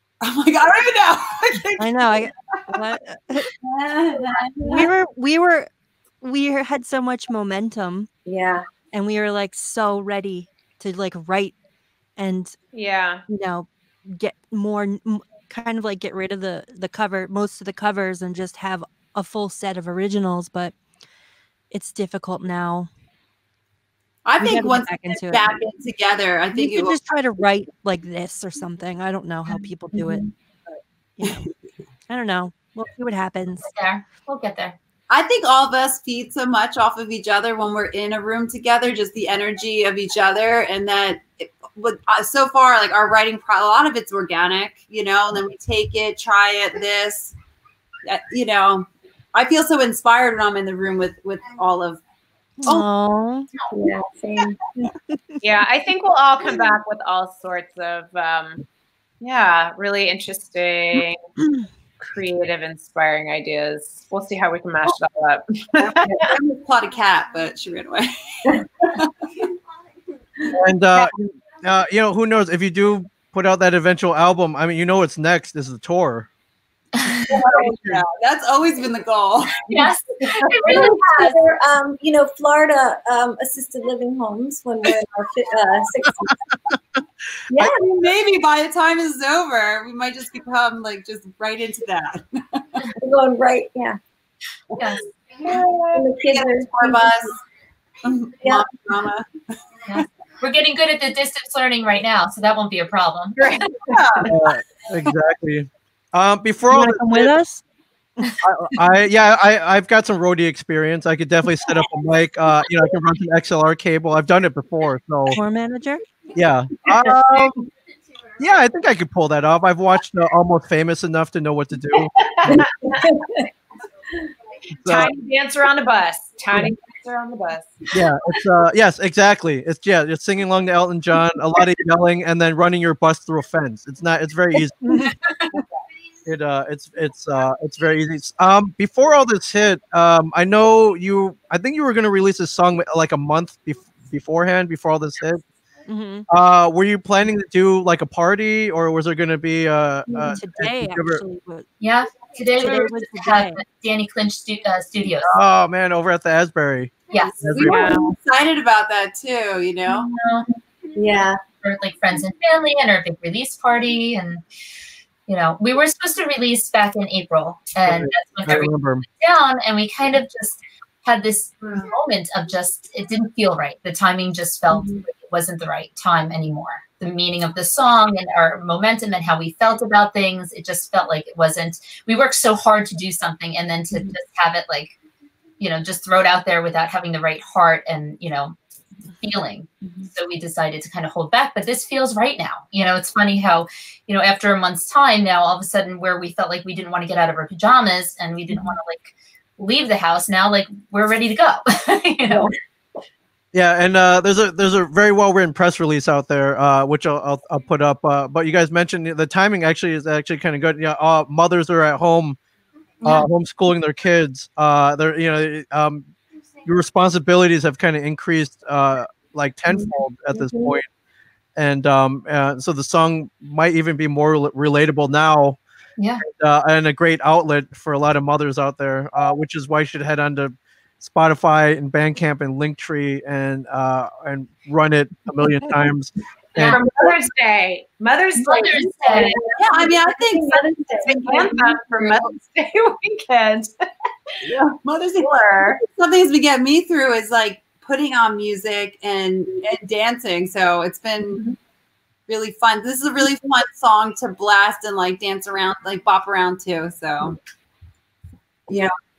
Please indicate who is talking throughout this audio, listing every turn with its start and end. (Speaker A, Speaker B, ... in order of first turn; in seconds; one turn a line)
Speaker A: 0.2-2.6
Speaker B: 1.8-3.5
Speaker A: 3.6-4.9
Speaker B: 4.6-5.7
Speaker B: 6.2-8.1
Speaker C: 8.3-8.7
Speaker B: 8.9-11.6
Speaker B: 12.2-12.6
Speaker D: 12.7-13.2
Speaker B: 13.3-20.8
Speaker B: 21.7-22.9
Speaker A: 24.2-27.0
Speaker B: 24.4-25.4
Speaker B: 26.5-30.3
Speaker B: 31.2-31.5
Speaker B: 32.1-33.7
Speaker E: 33.6-34.8
Speaker A: 35.1-47.3
Speaker A: 48.0-52.0
Speaker B: 52.6-53.5
Speaker C: 53.7-54.6
Speaker D: 55.4-58.6
Speaker D: 59.2-61.2
Speaker D: 62.0-66.3
Speaker A: 65.8-69.3
Speaker F: 70.5-76.3
Speaker A: 77.3-79.9
Speaker C: 77.3-77.7
Speaker F: 77.5-78.0
Speaker E: 79.7-81.4
Speaker C: 80.4-86.5
Speaker C: 87.5-87.8
Speaker A: 87.6-92.8
Speaker C: 93.0-94.0
Speaker E: 94.8-95.0
Speaker D: 95.4-96.1
Speaker C: 95.9-97.3
Speaker A: 96.2-97.4
Speaker A: 98.0-99.3
Speaker E: 99.9-103.7
Speaker D: 103.4-104.3
Speaker A: 103.9-104.3
Speaker F: 104.3-107.3
Speaker B: 106.7-107.6
Speaker F: 108.4-115.4
Speaker B: 115.3-116.0
Speaker F: 116.3-117.7
Speaker F: 118.4-122.6
Speaker D: 122.2-123.1
Speaker C: 122.8-123.5
Speaker F: 124.8-125.1
Speaker D: 124.9-127.9
Speaker F: 127.9-134.9
Speaker B: 134.9-135.1
Speaker E: 135.0-135.4
Speaker F: 136.2-145.4
Speaker B: 145.9-146.3
Speaker F: 146.3-151.2
Speaker B: 150.3-151.7
Speaker E: 151.8-155.3
Speaker B: 152.6-153.6
Speaker F: 155.2-158.0
Speaker E: 157.1-157.3
Speaker A: 157.2-160.1
Speaker D: 157.7-158.1
Speaker E: 159.9-160.5
Speaker C: 160.9-161.4
Speaker E: 161.6-164.4
Speaker E: 165.3-184.9
Speaker F: 167.9-169.1
Speaker E: 185.6-188.6
Speaker E: 189.2-202.5
Speaker C: 189.8-190.1
Speaker C: 202.3-202.5
Speaker F: 203.5-212.4
Speaker F: 213.0-216.1
Speaker F: 216.7-220.9
Speaker C: 219.7-220.8
Speaker F: 221.6-225.6
Speaker E: 226.0-226.2
Speaker F: 226.2-236.8
Speaker E: 236.6-236.8
Speaker D: 236.6-239.4
Speaker E: 238.4-239.4
Speaker C: 239.1-241.5
Speaker A: 239.6-242.2
Speaker D: 241.1-243.7
Speaker A: 244.4-251.4
Speaker D: 245.2-245.8
Speaker A: 252.3-257.4
Speaker A: 258.7-258.9